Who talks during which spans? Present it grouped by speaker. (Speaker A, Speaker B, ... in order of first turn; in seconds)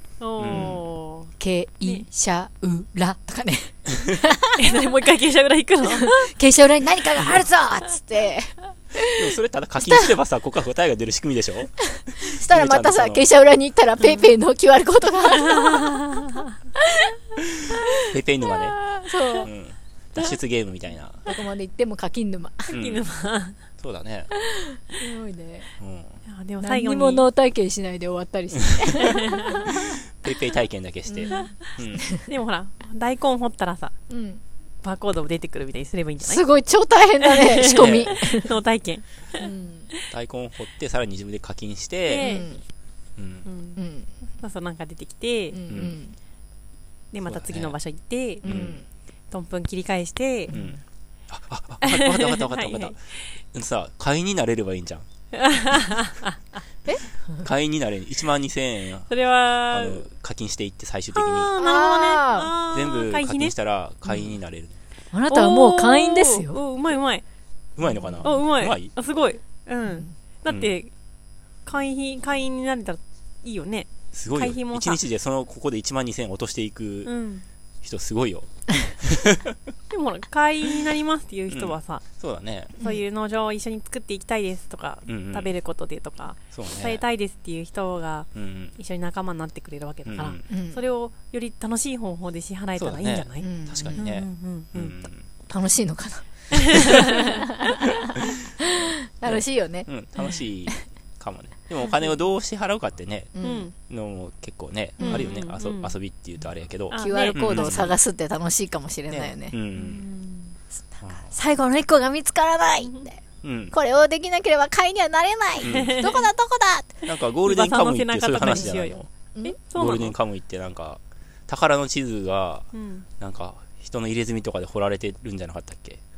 Speaker A: 0.2-1.3, 4.6-6.3, 15.5-16.4, 22.7-23.6, 26.3-27.3, 31.3-31.6, 32.3-33.9, 34.8-36.5, 37.2-39.5, 42.1-42.5, 43.5-43.8, 44.4-45.6, 47.1-48.7, 49.3-50.5, 51.8-53.0, 55.4-56.6, 59.1-60.0, 61.1-63.5, 65.3-67.2, 68.2-70.9, 71.7-75.0, 77.0-77.4, 79.9-82.0, 82.8-95.0, 96.8-97.2, 103.4-103.7, 105.0-106.0, 106.9-108.0, 109.8-110.5, 115.6-116.1, 117.4-120.2, 122.7-123.1
Speaker B: 0.4-0.8, 9.2-13.2, 18.1-18.9, 19.4-21.2, 22.7-23.1, 23.8-24.3, 25.8-26.2, 29.9-32.0, 37.6-38.1, 40.1-42.4, 43.2-43.5, 45.7-46.0, 47.2-47.8, 48.5-48.8, 50.5-50.8, 51.3-53.0, 53.5-55.1, 57.4-59.1, 59.7-61.5, 62.7-64.8, 67.8-68.9, 74.1-77.1, 77.8-79.5, 81.5-82.8, 85.1-85.5, 86.5-87.0, 88.3-88.8, 90.1-90.4, 92.8-95.2, 99.2-107.9, 109.1-110.0, 111.0-111.3, 113.4-113.8, 115.6-116.0, 117.1-119.0, 119.8-122.7, 123.2-126.0
Speaker C: 1.4-4.7, 5.9-10.1, 12.3-17.2, 17.7-19.5, 21.2-22.8, 24.3-25.7, 26.6-29.8, 31.1-31.3, 31.9-32.3, 34.1-34.4, 36.2-38.5, 39.4-39.9, 42.1-42.6, 43.8-44.1, 45.5-46.2, 48.4-48.9, 50.5-50.8, 56.9-57.5, 61.6-62.5, 65.1-66.6, 67.9-68.2, 69.9-70.1, 90.5-90.8, 93.4-94.0, 95.5-100.8, 103.3-103.7, 105.0-105.3, 107.0-109.6, 111.0-113.2, 113.7-117.0, 118.5-118.8